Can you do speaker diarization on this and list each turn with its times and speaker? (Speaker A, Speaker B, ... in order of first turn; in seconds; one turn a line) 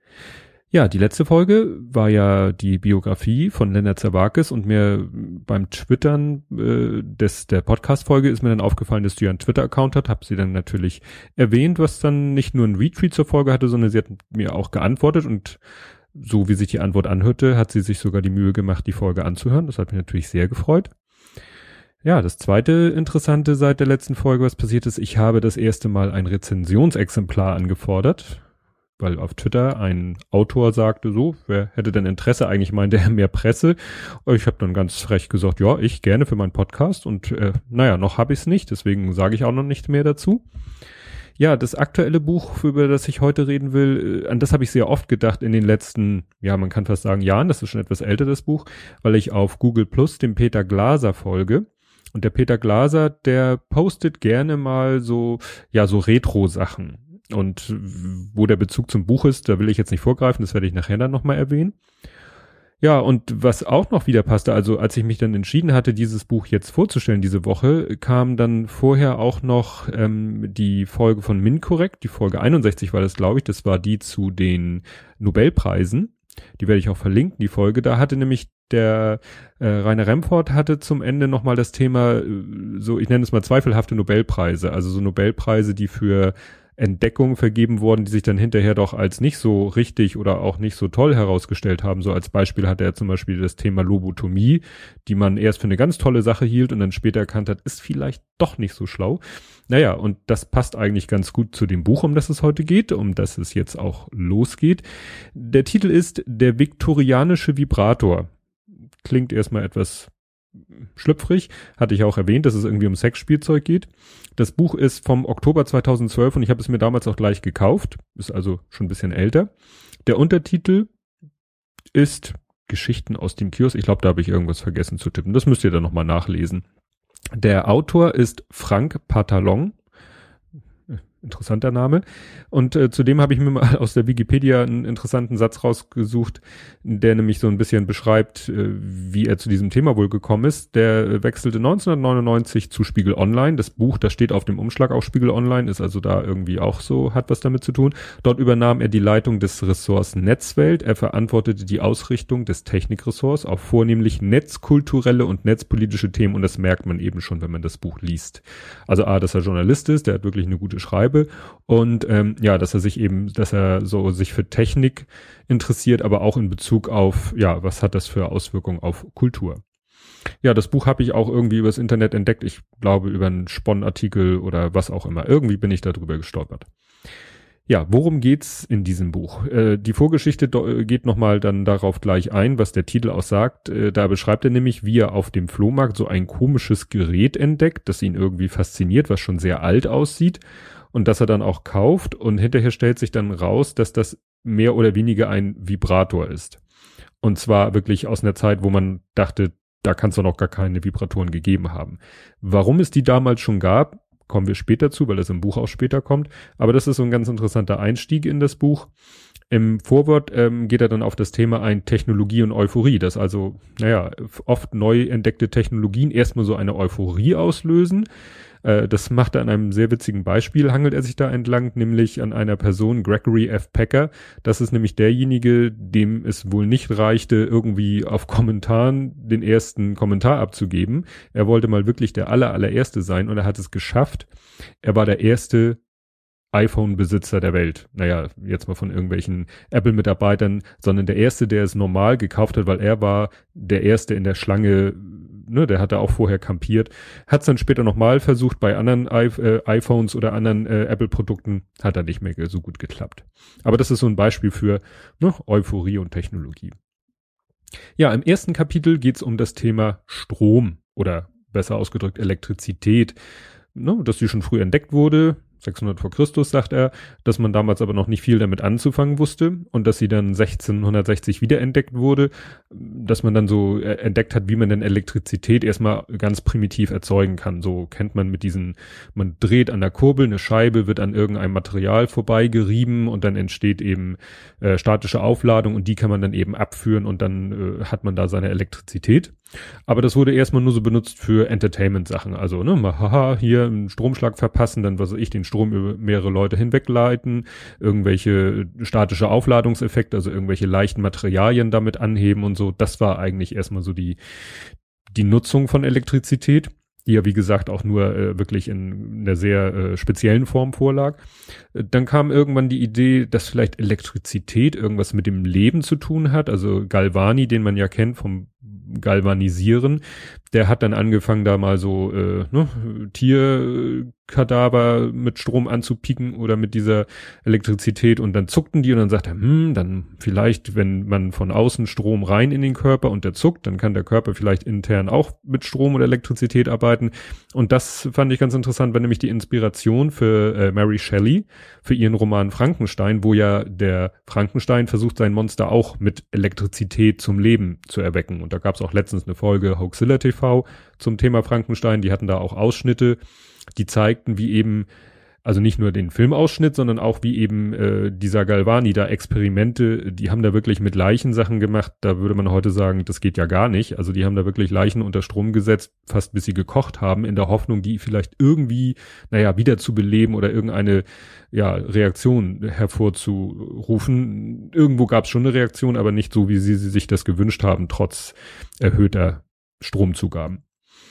Speaker A: 0.7-15.6
Speaker A: 16.1-20.9
Speaker A: 22.0-28.4
Speaker A: 29.0-40.4
Speaker A: 41.4-61.8
Speaker A: 62.8-104.8
Speaker A: 105.3-108.3
Speaker A: 109.0-110.1
Speaker A: 111.0-119.5
Speaker A: 120.1-120.9
Speaker A: 121.9-126.6
Speaker A: 127.3-129.8
Speaker A: 131.2-169.6
Speaker A: 170.4-176.7
Speaker A: 177.7-190.4
Speaker A: 190.9-196.6
Speaker A: 197.2-208.9
Speaker A: 209.5-218.1
Speaker A: 218.6-234.3
Speaker A: 234.8-235.8
Speaker A: 236.5-256.8
Speaker A: 258.0-263.2
Speaker A: 263.7-289.3
Speaker A: 289.9-304.2
Speaker A: 305.1-311.2
Speaker A: 311.7-353.2
Speaker A: 353.8-354.9
Speaker A: 355.4-380.6